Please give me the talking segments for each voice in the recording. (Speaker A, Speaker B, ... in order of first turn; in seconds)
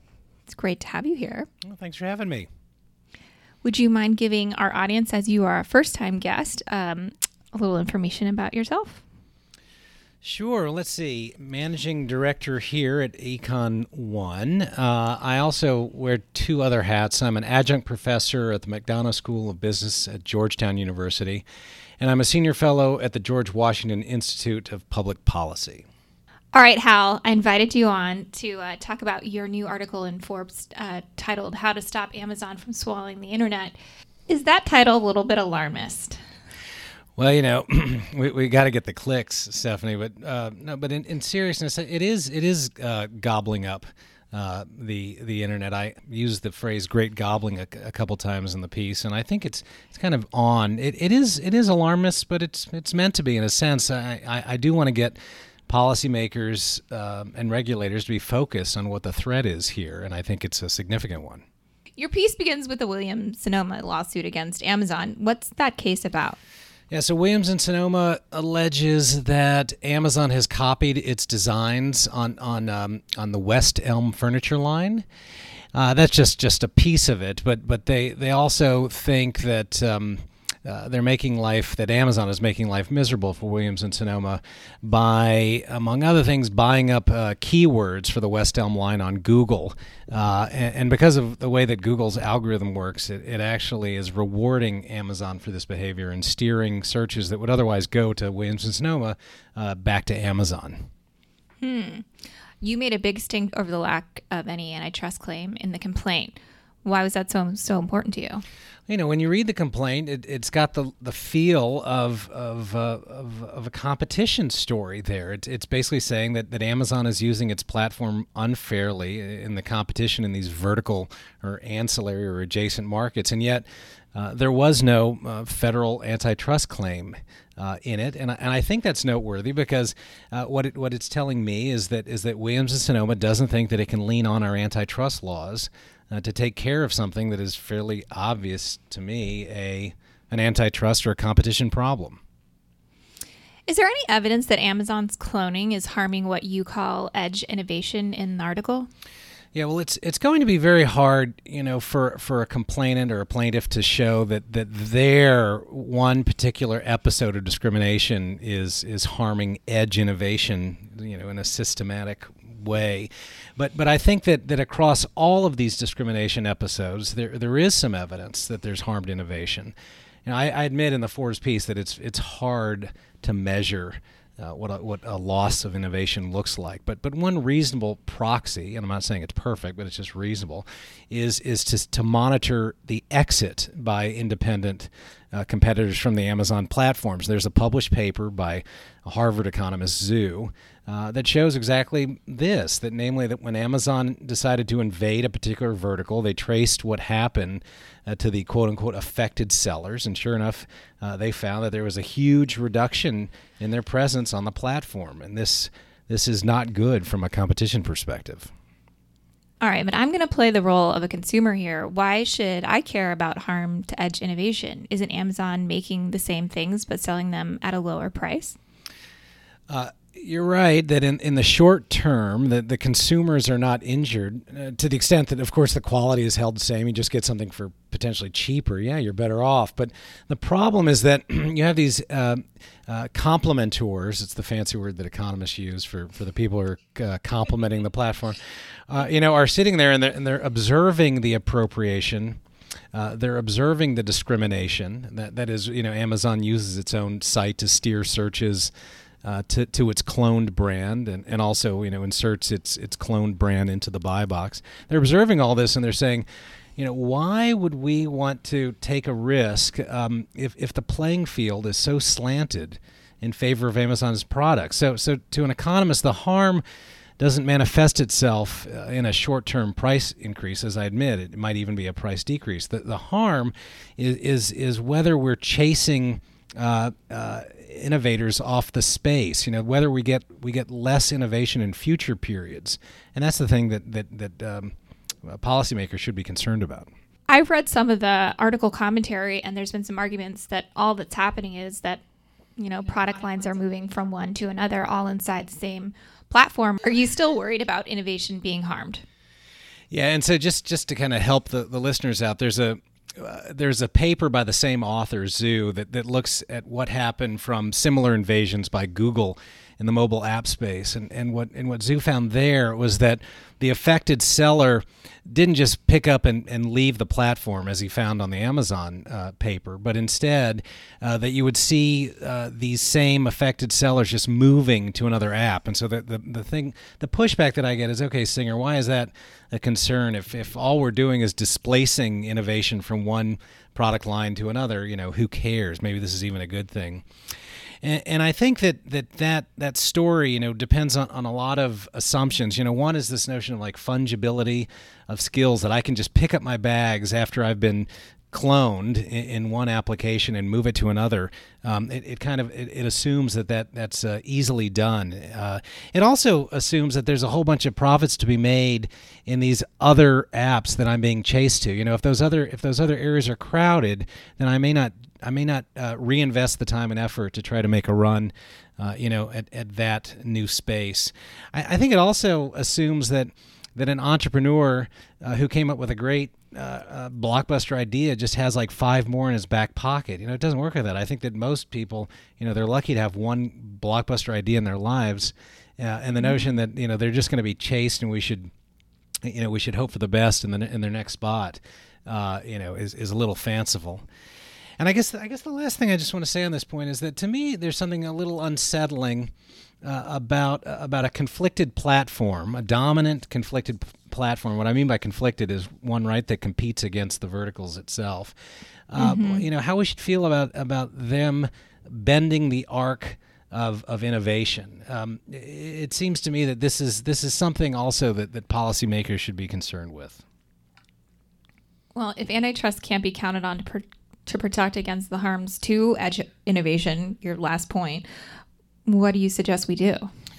Speaker A: 0.5-1.5, 3.6-9.0, 26.5-33.8, 34.3-36.2, 62.0-66.4, 101.6-102.1, 102.6-108.4, 143.7-148.9, 209.6-218.6, 287.3-292.0, 292.6-299.0, 386.2-386.5, 409.0-409.5, 421.9-428.1, 428.9-430.1
Speaker B: 1.6-2.5, 10.2-21.4, 22.0-25.9, 37.2-61.4, 66.9-75.0, 75.7-100.9, 108.9-142.2, 149.5-169.8, 170.3-208.5, 219.7-238.4, 238.9-242.4, 242.9-248.7, 249.2-256.3, 256.8-266.6, 267.2-284.7, 285.3-286.9, 299.9-337.0, 337.8-388.5, 389.2-394.0, 394.8-399.3, 399.8-408.4, 408.9-420.2